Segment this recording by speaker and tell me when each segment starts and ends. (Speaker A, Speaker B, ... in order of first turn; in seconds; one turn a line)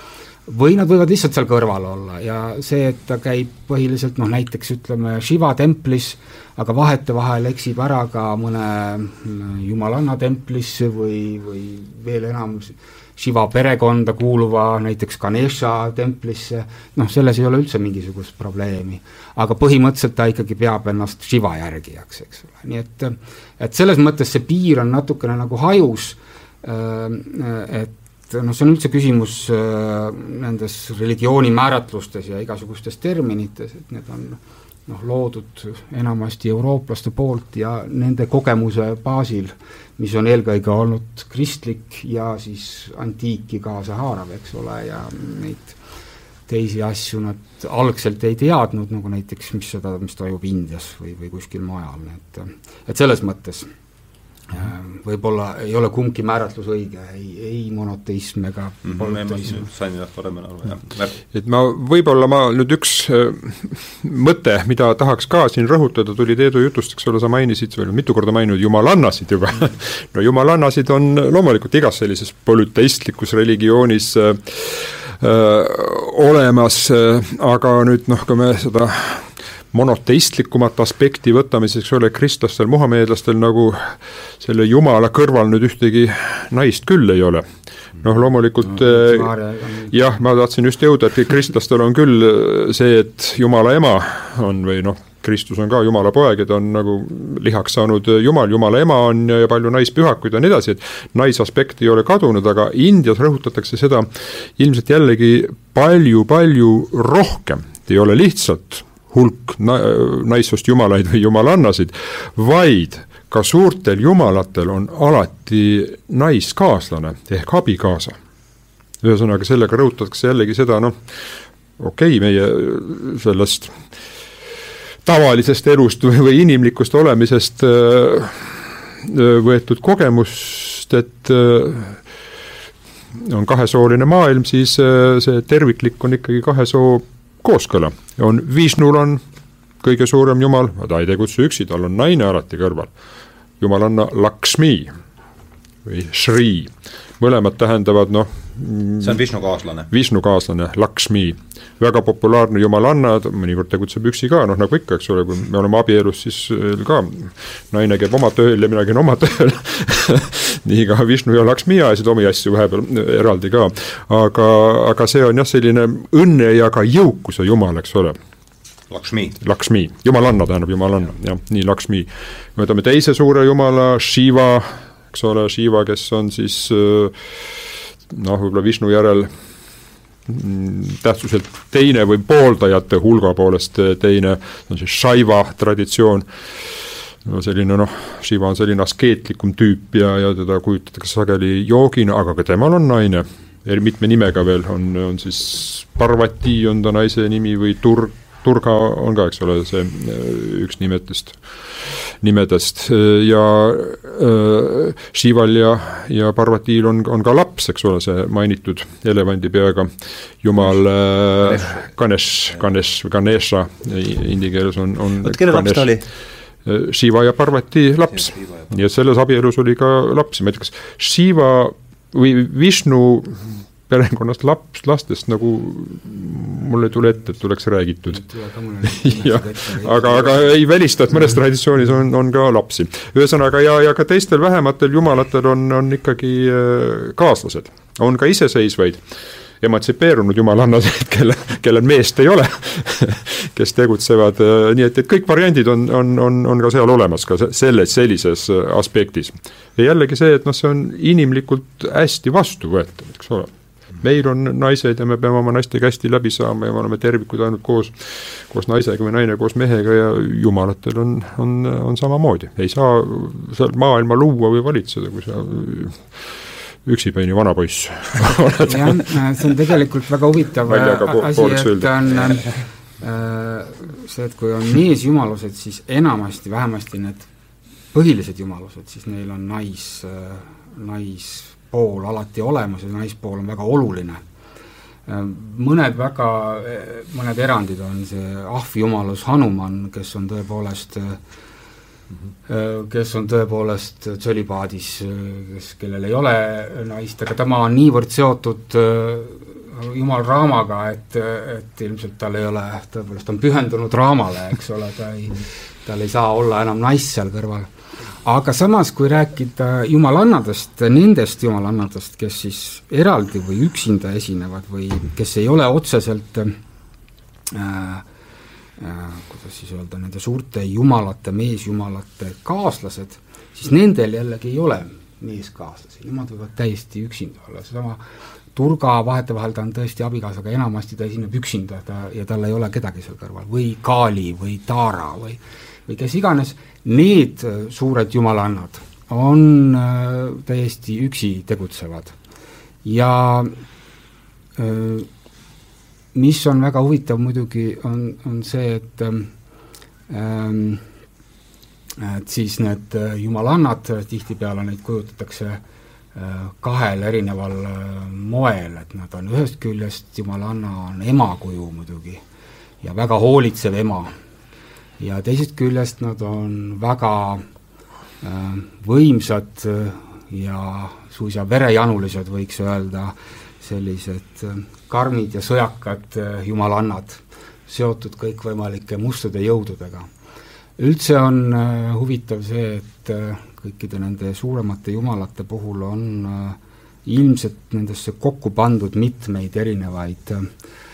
Speaker A: 0.5-45.8
Speaker A: 46.5-53.7
Speaker A: 54.5-59.7
Speaker B: 58.9-61.2
Speaker C: 61.3-87.4
Speaker C: 88.0-89.3
Speaker A: 88.6-89.9
Speaker C: 89.9-118.2
Speaker C: 119.0-121.0
Speaker C: 121.8-123.8
Speaker C: 125.0-132.0
Speaker C: 133.1-139.2
Speaker C: 139.8-142.9
Speaker C: 143.6-144.9
Speaker C: 145.8-149.2
Speaker B: 149.0-149.9
Speaker C: 149.9-168.2
Speaker B: 168.9-169.4
Speaker C: 169.4-177.6
Speaker C: 178.1-179.3
Speaker C: 180.3-186.3
Speaker C: 187.2-209.9
Speaker C: 210.4-215.9
Speaker B: 211.5-211.8
Speaker B: 215.2-216.1
Speaker C: 216.6-228.3
Speaker A: 228.1-230.6
Speaker C: 228.8-239.0
Speaker C: 239.6-253.5
Speaker C: 254.0-266.1
Speaker C: 266.8-269.1
Speaker A: 268.6-277.3
Speaker C: 270.6-272.1
Speaker A: 277.9-284.2
Speaker A: 285.1-291.2
Speaker A: 292.5-307.7
Speaker A: 308.2-316.6
Speaker A: 317.5-318.1
Speaker A: 318.8-328.0
Speaker A: 328.6-342.1
Speaker A: 342.8-343.6
Speaker A: 344.6-345.1
Speaker A: 346.1-349.3
Speaker A: 350.1-350.8
Speaker A: 352.0-355.6
Speaker A: 356.1-362.2
Speaker A: 362.8-364.1
Speaker A: 365.0-367.4
Speaker A: 368.2-380.1
Speaker A: 380.8-390.5